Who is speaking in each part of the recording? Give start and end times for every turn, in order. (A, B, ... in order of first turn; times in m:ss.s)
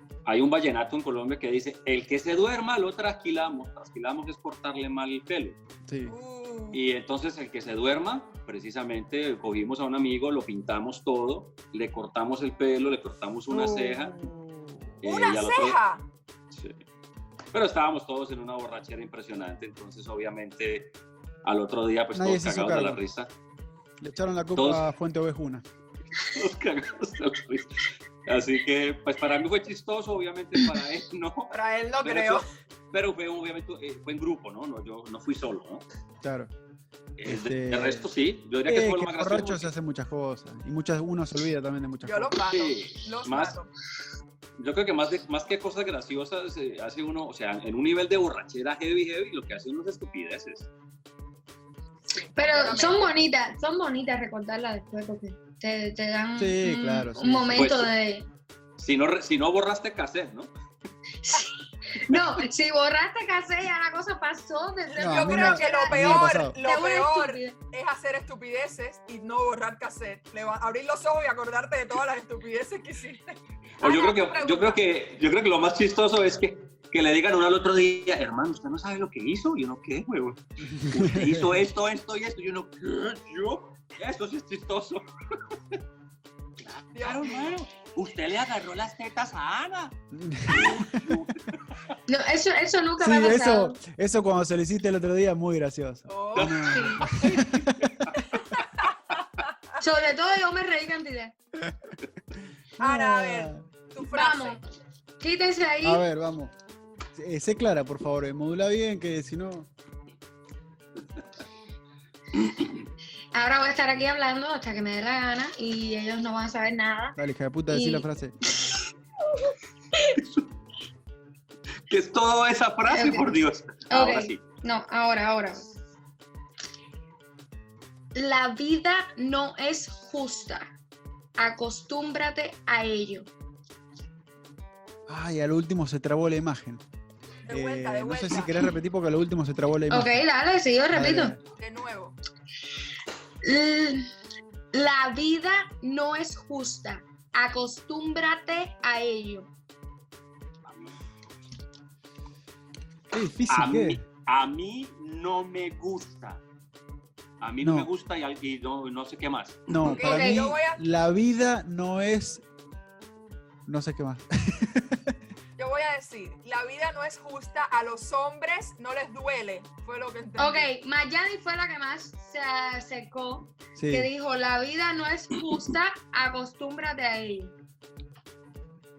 0:00.2-0:05.6 A
0:05.9-0:06.2 B
0:06.0-0:06.8 C
0:06.7-0:14.2 A
0:13.5-0:15.0 B
0:15.0-0:15.8 A
0:15.0-0:16.0 C
0:16.5-0:16.8 A
0:17.5-0:23.3 A
0:22.1-0:23.0 B
0:24.0-0:25.6 B
0:24.6-0:24.8 A
0:26.2-0:31.5 A
0:31.5-0:32.4 C
0:32.0-0:35.8 A
0:36.2-0:36.5 B
0:37.2-0:39.7 A
0:37.3-0:38.1 B
0:38.7-0:42.4 B
0:42.1-0:43.7 C
0:42.5-0:43.6 A
0:44.6-0:50.7 A
0:52.1-0:53.1 C
0:52.4-0:58.3 D
0:56.4-0:57.7 B
0:57.6-0:57.9 A
0:58.8-1:00.5 A
1:01.2-1:07.6 D
1:05.0-1:06.6 B
1:05.0-1:14.8 C
1:13.8-1:25.1 A
1:20.6-1:21.7 B
1:26.7-1:30.0 A
1:27.0-1:27.6 C
1:30.1-1:31.2 B
1:30.5-1:31.6 A
1:32.1-1:33.8 D
1:33.0-1:38.1 B
1:36.1-1:36.7 C
1:36.4-1:38.2 A
1:36.7-1:37.2 D
1:38.4-1:39.0 C
1:39.8-1:41.3 D
1:42.8-1:43.6 B
1:42.8-1:44.6 C
1:44.1-1:44.6 D
1:45.2-1:46.0 D
1:45.8-1:46.5 B
1:47.2-1:49.7 B
1:53.3-1:58.1 D
1:57.2-1:58.3 B
2:00.2-2:00.5 A
2:01.9-2:04.4 A
2:02.9-2:03.4 D
2:03.9-2:05.7 D
2:08.2-2:10.7 D
2:11.4-2:13.3 D
2:15.1-2:16.8 B
2:17.5-2:18.6 C
2:17.5-2:20.2 B
2:19.9-2:21.4 D
2:20.9-2:21.4 B
2:21.6-2:22.2 C
2:23.4-2:24.1 D
2:24.7-2:29.5 D
2:30.7-2:30.9 A
2:33.1-2:34.0 B
2:33.5-2:36.4 A
2:37.4-2:40.0 A
2:37.6-2:37.9 B
2:39.7-2:42.4 B
2:39.8-2:40.8 C
2:40.0-2:40.5 D
2:43.7-2:45.1 B
2:45.6-2:50.7 C
2:50.4-2:57.5 D
2:53.8-2:54.1 B